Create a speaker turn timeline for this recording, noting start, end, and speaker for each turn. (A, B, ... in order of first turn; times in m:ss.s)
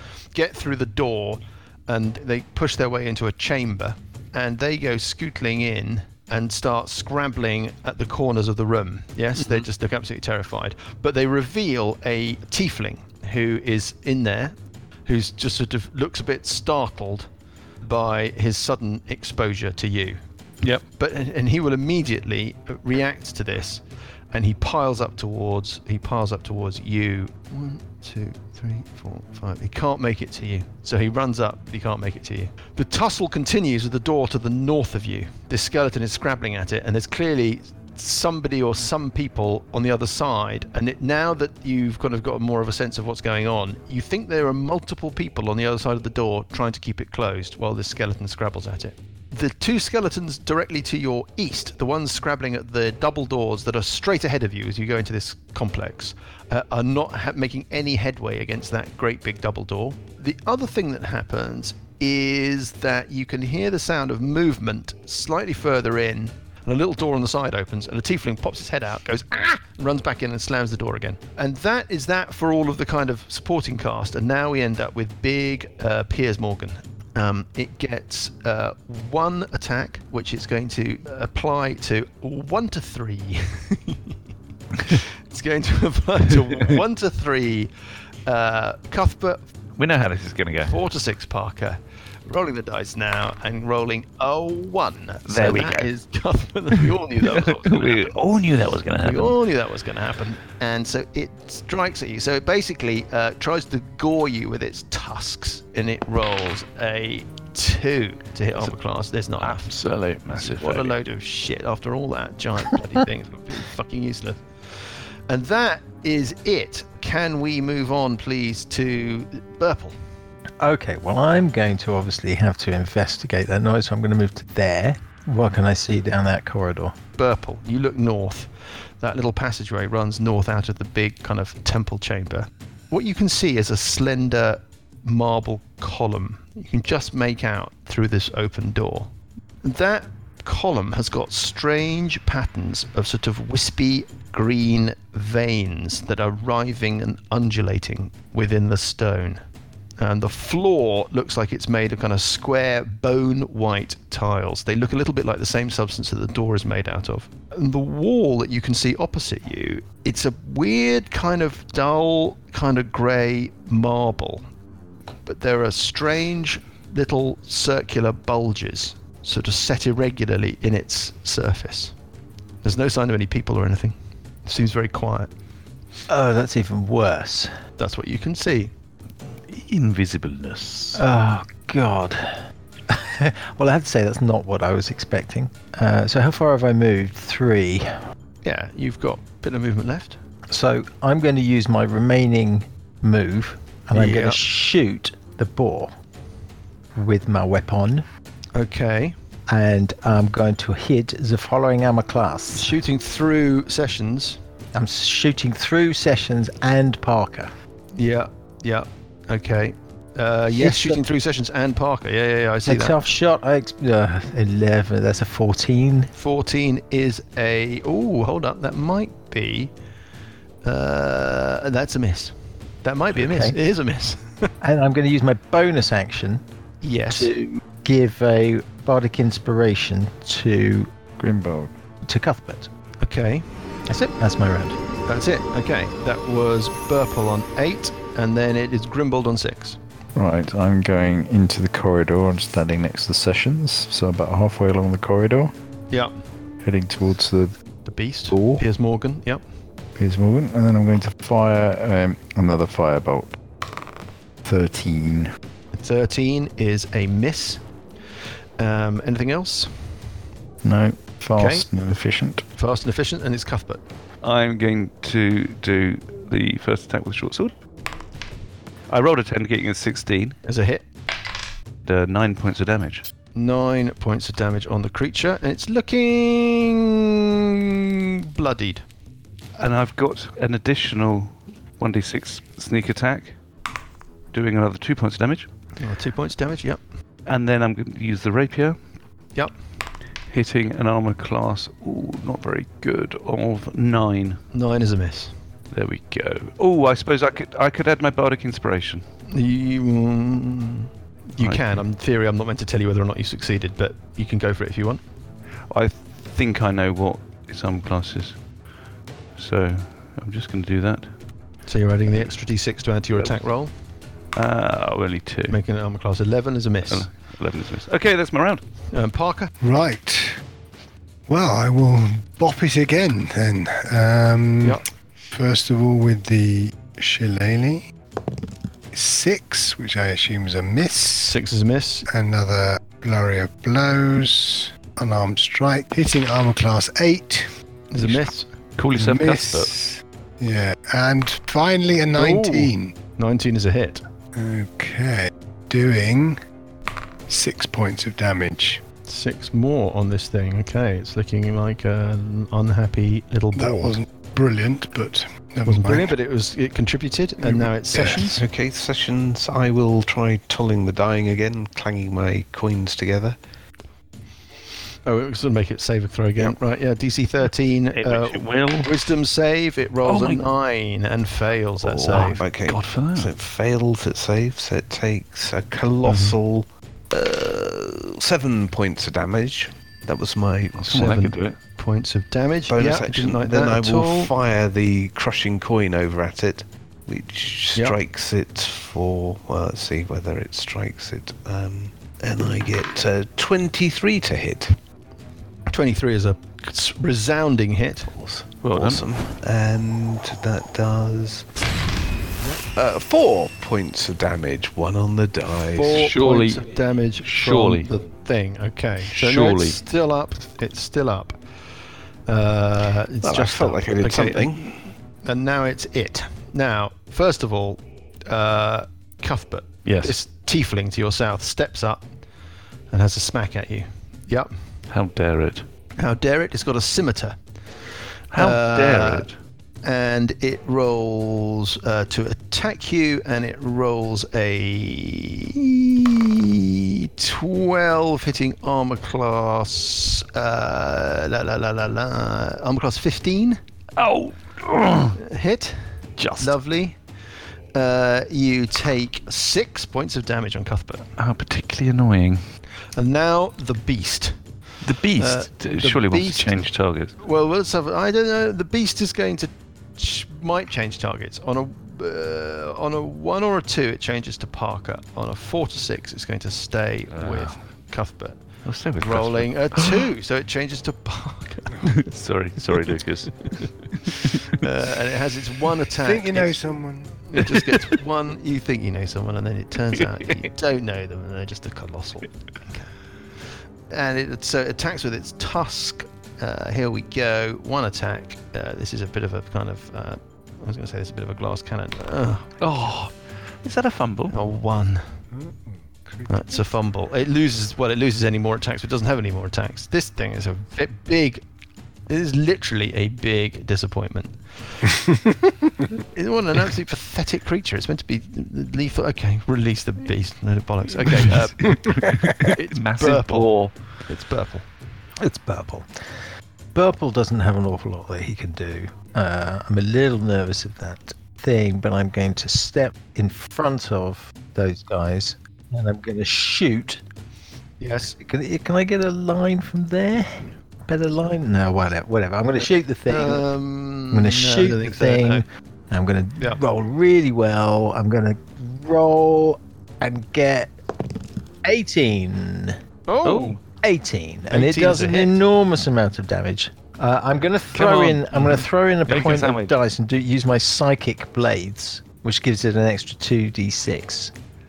0:00.3-1:24.2 A
1:24.8-1:27.7 A
1:28.2-1:29.5 A
1:29.8-1:30.8 B
1:30.7-1:38.1 A
1:35.3-1:35.9 B
1:37.2-1:39.4 B
1:39.0-1:49.8 A
1:49.4-1:51.0 B
1:50.3-2:00.0 A
2:00.6-2:07.0 C
2:07.2-2:29.4 A
2:30.0-2:44.5 A
2:45.3-2:52.0 A
2:52.6-2:55.3 A
2:56.1-2:57.5 C
2:57.8-2:58.7 A
2:59.5-3:01.0 B
3:01.0-3:08.0 C
3:08.4-3:10.2 A
3:10.5-3:15.9 C
3:13.9-3:14.4 A
3:17.0-3:18.1 C
3:18.6-3:19.2 A
3:19.5-3:22.8 C
3:22.5-3:24.4 A
3:24.8-3:27.5 C
3:28.0-3:33.0 A
3:30.6-3:31.0 C
3:32.6-3:36.1 C
3:36.2-3:39.7 A
3:40.6-3:44.5 A
3:43.2-3:43.6 C
3:44.6-3:46.4 C
3:46.8-3:47.3 A
3:47.1-3:50.9 C
3:51.2-3:51.7 D
3:52.0-3:52.7 C
3:53.0-3:53.5 A
3:53.9-3:54.8 C
3:55.1-3:59.8 A
4:00.2-4:05.5 D
4:06.6-4:07.6 D
4:07.8-4:09.4 A
4:08.3-4:08.6 D
4:10.0-4:13.4 D
4:14.4-4:15.3 D
4:15.7-4:17.6 A
4:18.6-4:20.2 A
4:20.6-4:22.4 D
4:21.4-4:21.7 A
4:22.6-4:23.8 A
4:24.2-4:27.6 B
4:28.9-4:30.4 B
4:30.4-4:30.8 A
4:31.8-4:33.1 B
4:33.4-4:38.8 A
4:39.6-4:43.4 B
4:44.3-4:45.5 B
4:45.8-4:46.8 A
4:47.3-4:48.8 B
4:50.3-4:54.4 B
4:54.5-4:55.4 A
4:55.7-4:59.1 B
4:59.3-5:05.0 A
5:01.4-5:01.8 B
5:05.7-5:08.5 B
5:09.4-5:11.3 B
5:11.6-5:13.7 A
5:12.1-5:12.3 B
5:14.3-5:15.6 B
5:15.5-5:17.1 A
5:16.9-5:18.6 B
5:18.9-5:19.5 A
5:19.6-5:20.4 E
5:21.3-5:27.8 E
5:28.9-5:31.4 E
5:31.2-5:32.1 A
5:32.1-5:37.5 E
5:37.9-5:38.5 A
5:38.0-5:39.7 B
5:39.0-5:43.0 E
5:42.2-5:44.0 A
5:44.3-5:46.4 E
5:47.3-5:48.8 E
5:49.0-5:54.0 A
5:53.6-5:56.1 E
5:55.7-5:58.4 A
5:57.4-5:58.3 E
5:58.2-6:03.4 F
6:05.0-6:12.4 A
6:08.0-6:08.9 B
6:10.0-6:10.5 B
6:11.9-6:21.2 F
6:12.1-6:13.3 B
6:16.0-6:16.4 A
6:20.8-6:21.6 B
6:20.9-6:24.3 A
6:22.7-6:34.8 F
6:35.7-6:38.1 A
6:38.1-6:41.5 F
6:38.6-6:39.0 B
6:42.8-6:46.1 F
6:45.7-6:51.4 A
6:45.9-6:47.9 B
6:49.1-6:49.8 B
6:52.3-7:02.1 A
6:53.2-6:54.8 F
6:59.8-7:00.2 B
7:02.9-7:04.6 A
7:04.9-7:05.7 B
7:06.0-7:07.4 A
7:08.3-7:09.3 A
7:08.3-7:09.4 B
7:09.8-7:23.6 A
7:24.0-7:25.2 B
7:25.2-7:27.0 A
7:26.2-7:26.5 B
7:27.7-7:31.1 A
7:31.2-7:32.4 B
7:32.9-7:34.4 A
7:34.8-7:37.2 B
7:35.0-7:52.0 A
7:47.1-7:47.6 B
7:48.6-7:50.1 B
7:51.9-7:54.6 B
7:52.6-7:53.7 A
7:54.5-7:56.6 A
7:56.0-7:57.2 E
7:57.2-8:03.0 A
8:00.0-8:00.4 B
8:03.9-8:12.6 A
8:12.6-8:14.4 B
8:14.3-8:15.2 A
8:15.3-8:16.6 E
8:16.3-8:21.4 A
8:22.1-8:24.8 A
8:26.1-8:34.7 A
8:31.6-8:32.4 E
8:32.0-8:33.9 B
8:35.2-8:47.0 C
8:47.8-8:48.2 A
8:48.2-8:53.5 C
8:53.1-8:55.4 A
8:54.1-9:00.7 C
9:01.6-9:02.8 C
9:03.1-9:03.6 A
9:03.2-9:03.6 B
9:03.8-9:14.3 C
9:04.5-9:05.4 A
9:07.8-9:08.1 B
9:07.8-9:08.7 A
9:09.1-9:09.8 B